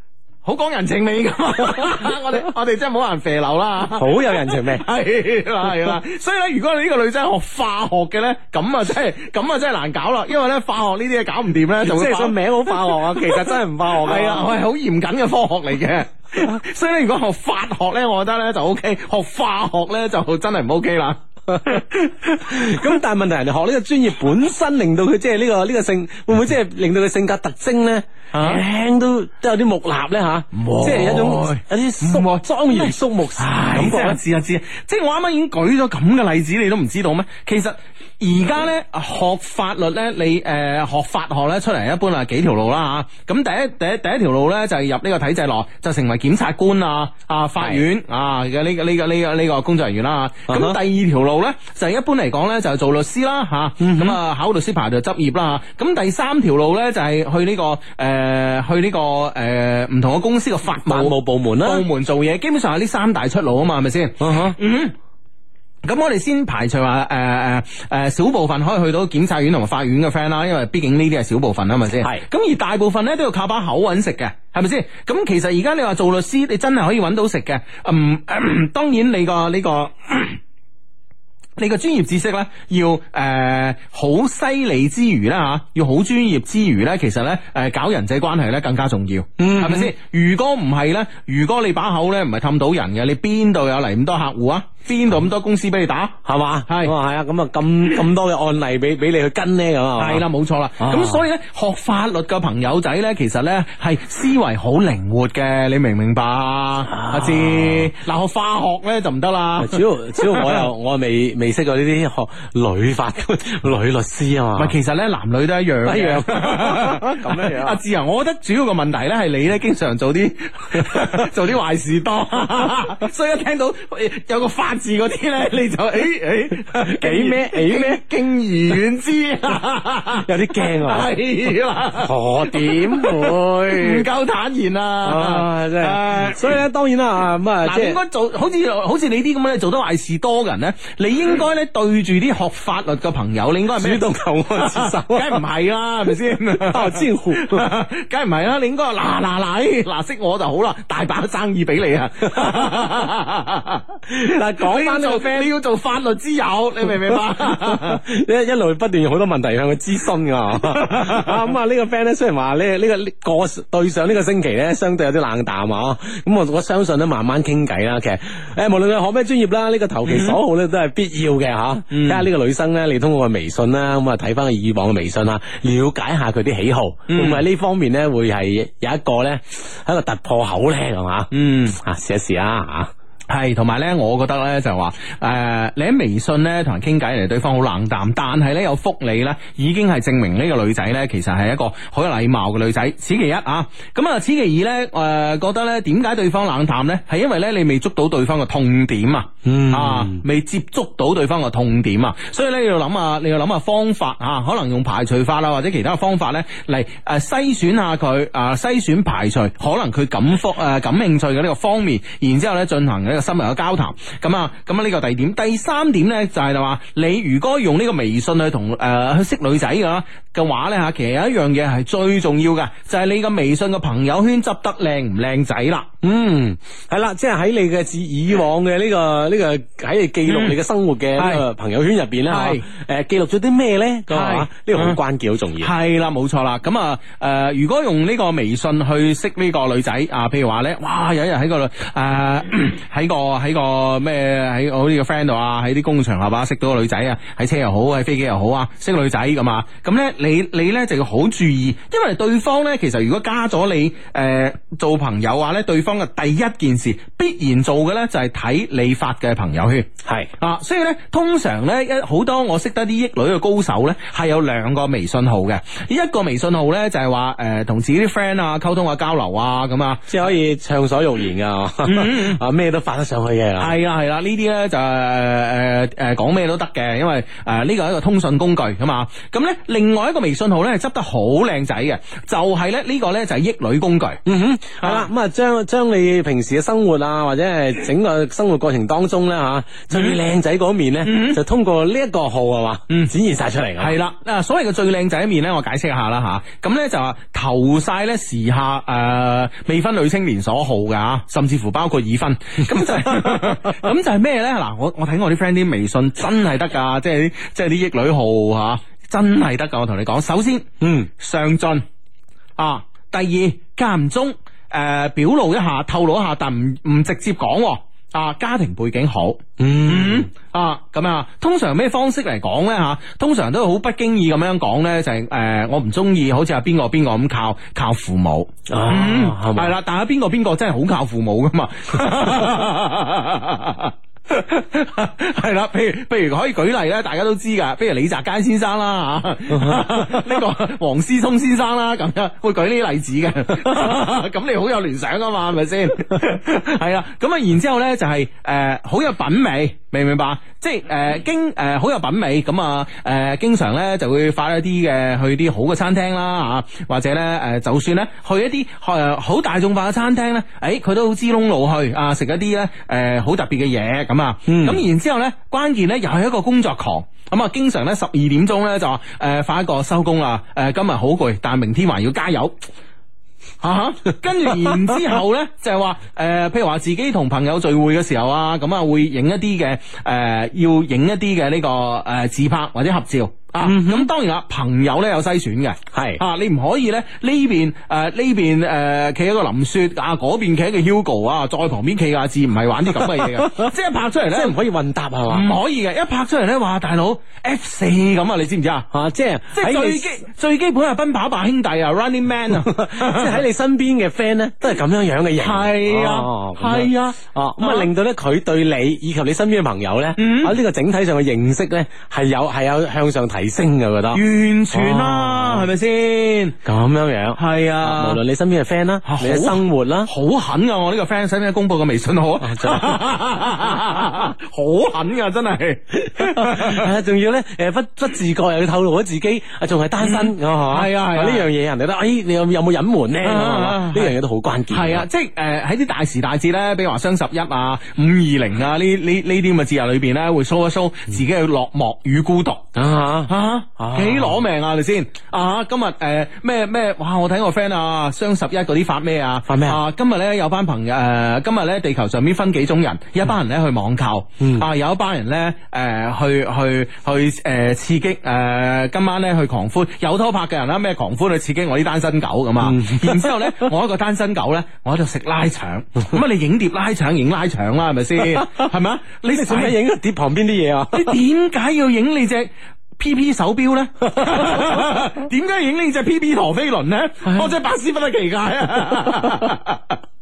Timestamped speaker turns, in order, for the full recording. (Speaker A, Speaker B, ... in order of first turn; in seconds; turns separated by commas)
Speaker A: 0.4-23.0, Speaker B: 3.9-4.9, Speaker B: 11.8-14.5, Speaker B: 21.5-21.8, Speaker B: 22.4-34.2, Speaker A: 28.3-28.6, Speaker A: 30.5-64.9, Speaker B: 50.5-50.8, Speaker B: 53.8-54.2, Speaker B: 60.8-61.8, Speaker B: 64.2-64.6, Speaker A: 65.8-80.4, Speaker A: 81.6-96.9, Speaker B: 89.4-89.9, Speaker B: 96.2-100.2, Speaker A: 100.0-110.7, Speaker B: 100.8-101.2, Speaker B: 106.9-107.9, Speaker B: 109.6-114.7, Speaker A: 114.6-136.6, Speaker B: 115.8-117.8, Speaker B: 126.8-128.0, Speaker B: 130.2-131.1, Speaker B: 131.9-134.1, Speaker B: 135.0-138.0, Speaker A: 137.6-158.0, Speaker B: 143.7-145.4, Speaker B: 146.6-147.7, Speaker B: 154.1-155.5, Speaker B: 157.4-182.9, Speaker A: 160.6-161.5, Speaker A: 170.1-170.4, Speaker A: 171.9-172.3, Speaker A: 177.1-177.4, Speaker A: 181.3-181.8, Speaker A: 183.3-225.9, Speaker B: 199.4-200.2, Speaker B: 226.0-235.7, Speaker A: 230.3-230.6, Speaker A: 231.2-231.4, Speaker A: 232.3-232.6, Speaker A: 234.1-235.0, Speaker A: 235.6-270.2, Speaker B: 260.1-260.3, Speaker B: 270.1-273.7, Speaker A: 271.8-272.4, Speaker A: 273.6-284.2, Speaker B: 284.3-293.9, Speaker A: 284.8-285.1, Speaker A: 289.9-290.2, Speaker A: 291.0-291.4, Speaker A: 293.8-311.8, Speaker B: 303.1-303.5, Speaker B: 310.8-311.1, Speaker A: 312.6-372.6, Speaker B: 319.6-320.3, Speaker B: 328.7-329.7, Speaker B: 339.5-340.2, Speaker B: 364.5-364.8, Speaker A: 373.6-394.6, Speaker B: 383.6-384.1, Speaker B: 385.9-386.2, Speaker B: 393.1-393.7, Speaker B: 394.3-395.5, Speaker A: 395.3-398.9, Speaker B: 398.9-400.1, Speaker A: 399.5-403.4, Speaker B: 402.6-415.7, Speaker A: 405.4-407.9, Speaker A: 410.2-410.6, Speaker A: 414.1-416.6, Speaker B: 416.6-420.1, Speaker A: 417.4-418.2, Speaker A: 419.1-426.9, Speaker B: 422.4-423.0, Speaker B: 426.1-435.1, Speaker A: 430.0-431.5, Speaker A: 433.2-434.2, Speaker A: 434.7-442.7, Speaker B: 442.7-444.4, Speaker A: 443.3-469.8, Speaker B: 449.5-449.8, Speaker B: 454.4-454.7, Speaker B: 462.6-463.7, Speaker B: 468.2-468.7, Speaker B: 469.3-471.2, Speaker A: 470.9-480.0, Speaker B: 474.1-474.9